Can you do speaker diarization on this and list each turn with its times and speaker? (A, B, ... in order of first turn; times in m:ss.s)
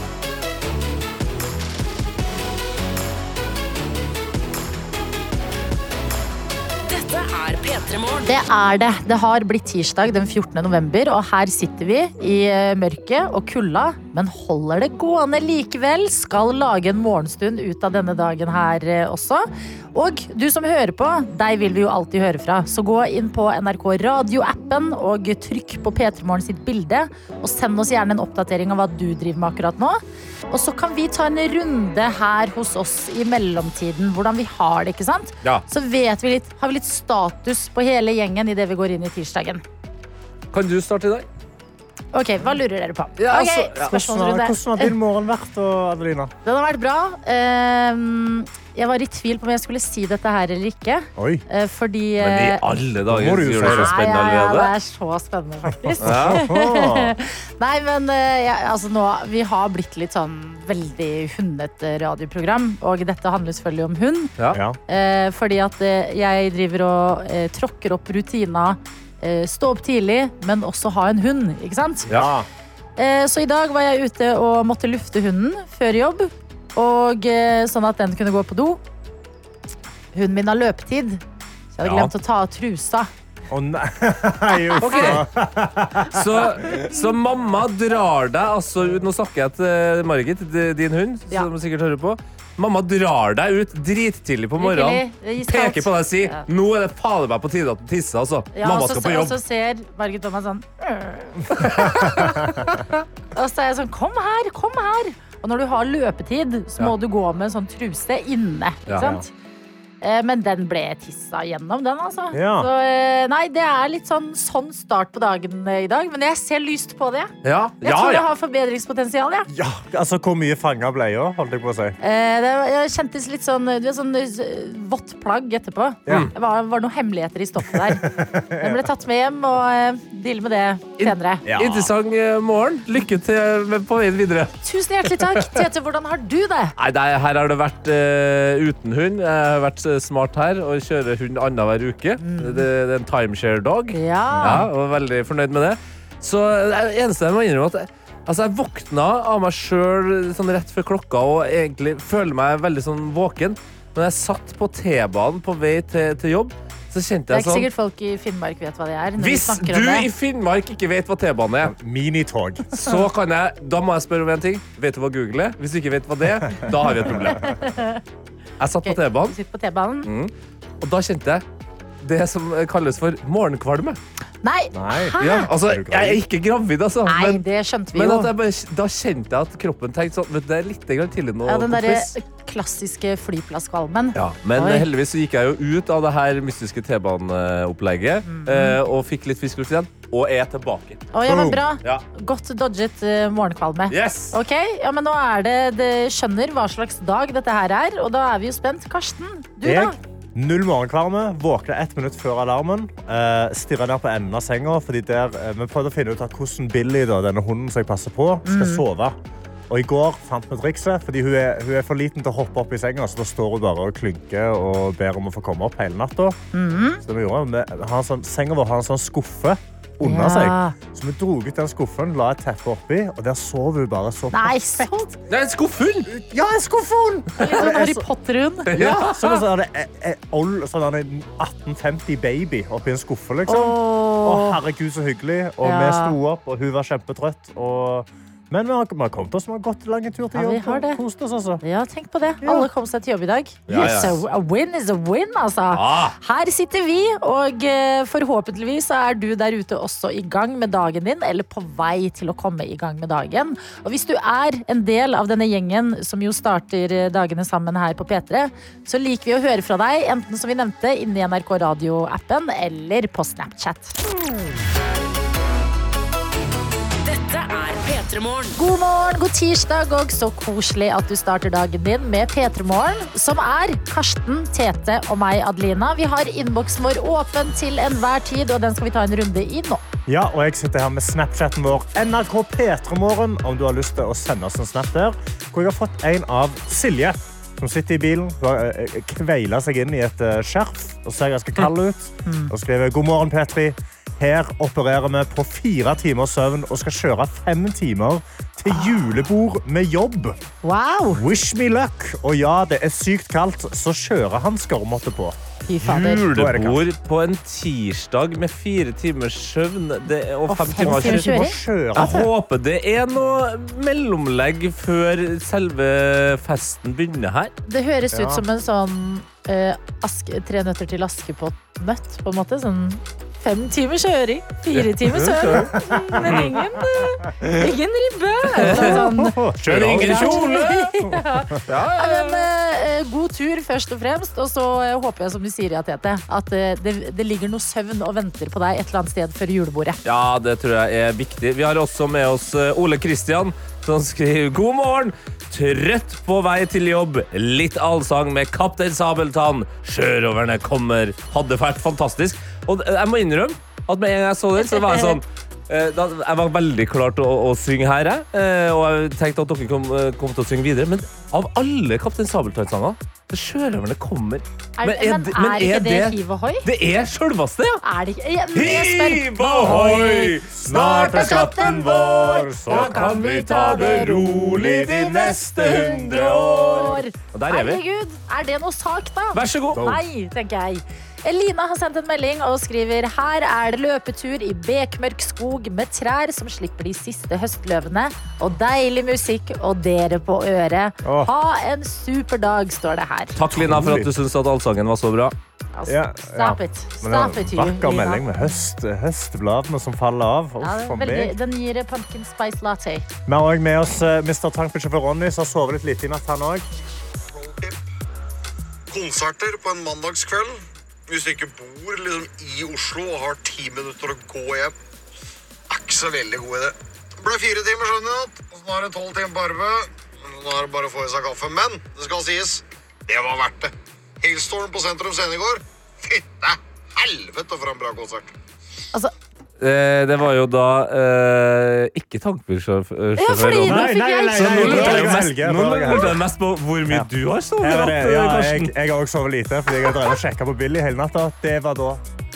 0:06.9-0:08.3 A
0:08.2-0:39.6 B
0:40.5-0:41.2 C
0:42.1-0:44.9 B
0:43.2-0:43.9 C
0:43.8-0:46.3 D
0:46.4-0:52.6 B
0:51.2-0:51.4 D
0:52.2-0:54.7 C
0:53.1-0:53.9 D
0:53.6-1:04.3 B
0:56.0-0:57.1 D
0:56.0-0:56.4 C
1:04.5-1:04.8 D
1:04.9-1:12.1 B
1:12.1-1:12.5 D
1:13.0-1:18.8 B
1:20.1-1:21.2 B
1:21.7-1:23.1 B
1:21.8-1:22.1 C
1:23.5-1:26.5 D
1:24.8-1:25.2 B
1:24.8-1:25.2 C
1:26.1-1:39.4 C
1:34.6-1:36.4 B
1:38.5-1:49.3 B
1:49.0-1:49.2 D
1:50.0-1:59.5 B
1:52.3-1:52.7 D
1:57.4-1:58.2 C
1:59.5-2:02.0 D
2:02.0-2:11.4 B
2:07.8-2:08.8 D
2:11.0-2:14.5 C
2:11.4-2:11.9 D
2:14.6-2:16.7 B
2:16.8-2:37.7 C
2:22.2-2:22.6 B
2:23.9-2:24.7 B
2:37.3-2:40.1 B
2:39.2-2:41.7 C
2:41.6-2:43.0 D
2:42.8-2:47.4 C
2:47.2-2:48.0 B
2:48.6-2:49.3 C
2:48.8-2:50.1 B
2:50.0-2:51.4 C
2:52.0-2:54.0 C
2:54.4-2:55.5 B
2:54.7-2:56.2 D
2:55.2-2:57.4 C
2:57.1-2:58.3 B
2:57.9-3:02.1 C
3:01.4-3:04.8 B
3:04.1-3:11.1 C
3:08.3-3:08.8 B
3:11.1-3:20.0 B
3:11.2-3:11.6 D
3:13.9-3:14.3 C
3:19.6-3:29.2 D
3:28.4-3:28.8 B
3:29.7-3:36.4 D
3:36.5-3:37.0 B
3:37.0-3:45.1 D
3:40.0-3:40.7 B
3:44.3-3:45.1 B
3:45.3-3:46.1 C
3:46.1-3:48.0 D
3:47.4-3:48.7 B
3:48.7-3:49.4 C
3:48.7-4:01.6 D
3:53.5-3:54.6 B
3:55.6-3:56.2 B
4:00.3-4:01.0 B
4:01.6-4:23.9 B
4:02.4-4:02.7 D
4:03.7-4:04.2 C
4:03.7-4:04.0 D
4:05.7-4:06.2 C
4:27.0-4:28.6 A
4:28.6-4:39.8 B
4:40.1-5:00.4 D
4:52.2-4:52.5 B
5:00.6-5:01.2 B
5:01.1-5:05.4 D
5:05.6-5:06.2 B
5:05.8-5:11.3 C
5:06.3-5:06.8 D
5:10.5-5:11.6 B
5:10.8-5:12.3 D
5:11.9-5:17.5 C
5:17.7-5:29.4 B
5:18.1-5:18.4 D
5:24.7-5:25.7 C
5:25.5-5:26.7 D
5:26.2-5:26.6 C
5:28.5-5:29.0 C
5:28.6-5:31.6 D
5:29.6-5:30.9 C
5:29.9-5:40.0 B
5:31.7-5:32.4 C
5:40.0-6:07.8 C
5:54.6-5:55.2 B
6:04.8-6:06.6 B
6:07.8-6:14.5 B
6:08.5-6:17.8 C
6:09.6-6:13.1 D
6:14.2-6:16.9 D
6:16.7-6:33.4 B
6:19.3-6:19.9 C
6:19.7-6:20.0 D
6:31.0-6:31.3 D
6:33.4-6:35.3 C
6:33.5-6:34.1 D
6:35.7-6:38.2 B
6:35.9-6:41.3 D
6:40.6-6:43.0 B
6:43.2-6:46.7 D
6:47.3-6:47.8 E
6:48.9-6:54.7 E
6:55.7-7:08.3 E
7:09.6-7:18.7 C
7:13.2-7:15.3 B
7:13.6-7:16.2 D
7:17.6-7:22.0 D